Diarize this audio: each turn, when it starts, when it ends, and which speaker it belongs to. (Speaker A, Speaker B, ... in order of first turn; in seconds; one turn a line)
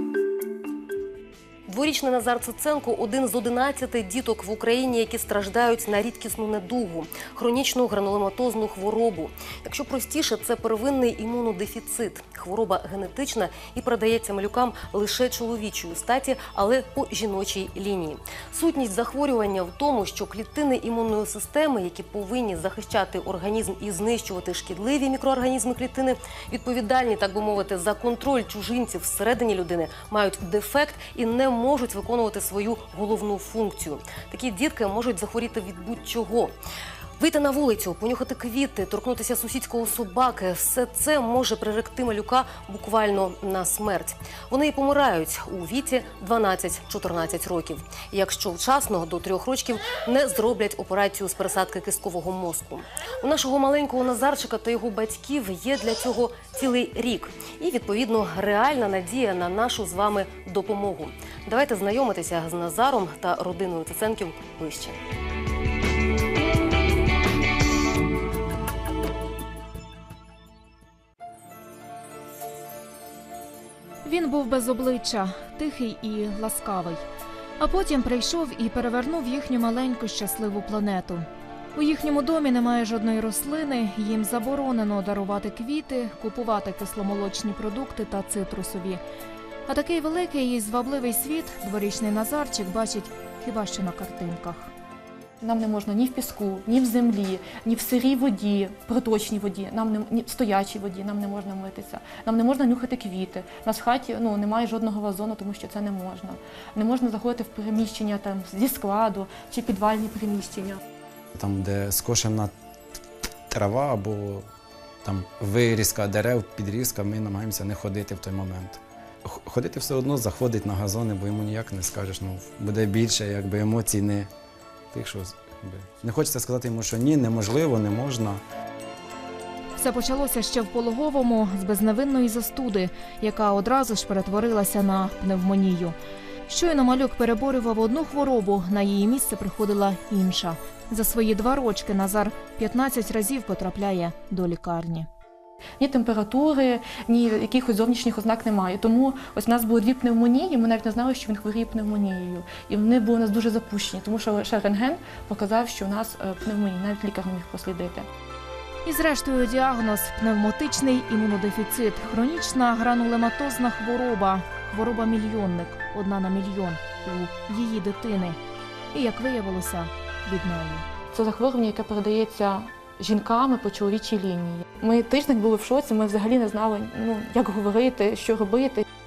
Speaker A: 1.7-36.5
Speaker A: 37.2-65.0
Speaker B: 74.0-77.0
Speaker B: 77.6-89.0
Speaker B: 89.7-94.7
Speaker C: 95.4-110.8
Speaker D: 111.3-112.5
Speaker D: 113.5-114.5
Speaker D: 115.0-124.3
Speaker D: 124.9-128.4
Speaker B: 129.8-136.0
Speaker B: 136.5-145.1
Speaker C: 145.8-158.1
Speaker B: 158.8-168.4
Speaker B: 168.9-170.9
Speaker C: 171.1-178.8